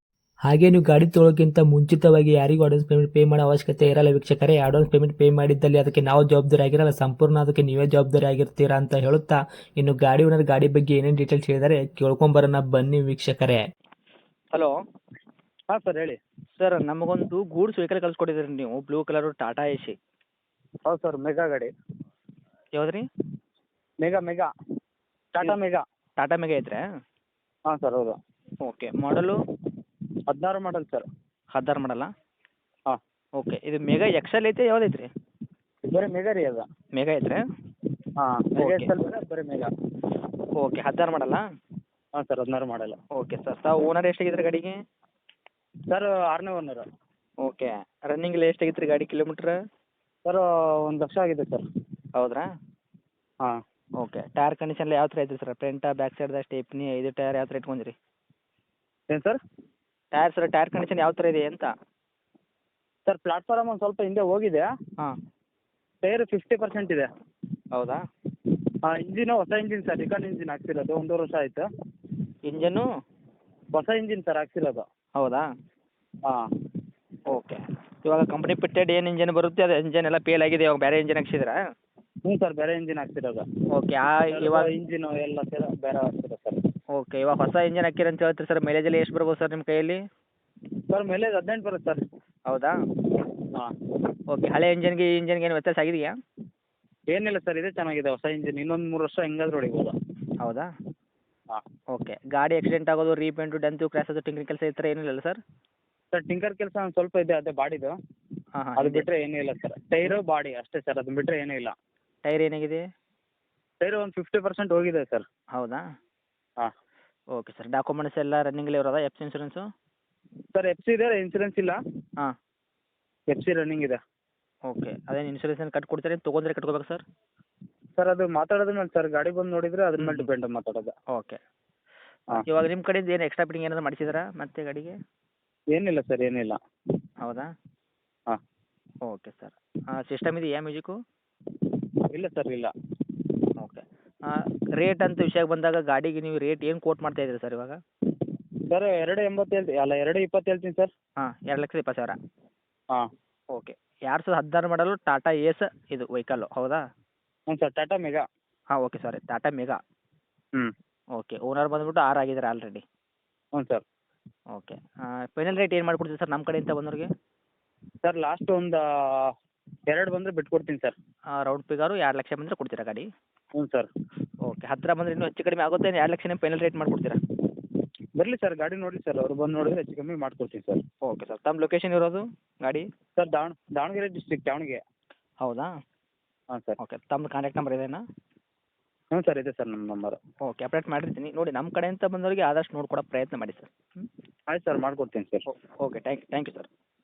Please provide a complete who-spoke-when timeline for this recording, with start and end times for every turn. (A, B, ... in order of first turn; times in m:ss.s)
0:00.5-0:13.6 A
0:15.7-0:16.2 B
0:16.6-0:20.0 C
0:20.9-0:21.7 B
0:22.8-0:23.0 C
0:24.0-0:24.5 B
0:25.3-0:25.8 B
0:26.2-0:26.8 C
0:27.7-0:28.2 B
0:28.6-0:29.4 C
0:30.3-0:31.0 B
0:31.6-0:32.1 C
0:33.4-0:35.1 C
0:35.9-0:36.6 B
0:37.0-0:37.4 C
0:38.2-0:39.7 B
0:38.6-0:38.9 C
0:40.6-0:41.4 C
0:42.2-0:43.0 B
0:43.2-0:44.8 C
0:45.9-0:46.8 B
0:47.4-0:49.6 C
0:50.2-0:51.6 B
0:52.2-0:52.5 C
0:54.0-0:58.0 C
0:59.1-0:59.4 B
1:00.1-1:01.7 C
1:03.1-1:04.7 B
1:06.0-1:07.1 B
1:07.7-1:08.0 C
1:08.8-1:11.6 B
1:12.5-1:12.9 C
1:13.7-1:14.8 B
1:15.2-1:15.4 C
1:17.3-1:21.6 C
1:22.2-1:23.4 B
1:23.7-1:24.7 C
1:24.3-1:26.6 B
1:27.0-1:30.0 C
1:30.9-1:32.0 B
1:32.5-1:32.8 C
1:34.3-1:36.1 C
1:37.1-1:39.9 B
1:40.4-1:40.7 C
1:41.9-1:45.4 C
1:46.1-1:47.9 B
1:48.6-1:49.0 C
1:48.8-1:51.7 B
1:52.2-1:52.8 C
1:53.8-1:55.2 B
1:55.6-1:55.8 C
1:57.3-1:59.7 C
2:00.5-2:01.8 B
2:03.3-2:04.0 B
2:04.7-2:07.0 C
2:08.0-2:10.9 B
2:10.0-2:10.3 C
2:11.1-2:11.4 C
2:12.4-2:15.0 C
2:15.7-2:16.6 B
2:17.2-2:17.5 C
2:19.1-2:21.0 C
2:22.1-2:22.7 B
2:23.6-2:27.8 C
2:28.7-2:30.9 B
2:31.2-2:32.2 C
2:33.5-2:36.8 C
2:37.5-2:38.2 B
2:38.8-2:39.8 C
2:41.2-2:42.8 C
2:43.6-2:43.8 B
2:44.5-2:47.1 C
2:48.0-2:49.3 B
2:49.9-2:51.0 B
2:51.4-2:53.1 C
2:53.6-2:53.9 B
2:54.5-2:57.2 C
2:58.2-3:00.8 B
3:01.0-3:02.9 C
3:03.2-3:04.8 B
3:05.4-3:05.7 C
3:06.5-3:06.8 B
3:06.8-3:08.0 C
3:09.1-3:10.2 B
3:10.4-3:14.0 C
3:14.5-3:15.4 B
3:15.5-3:16.7 C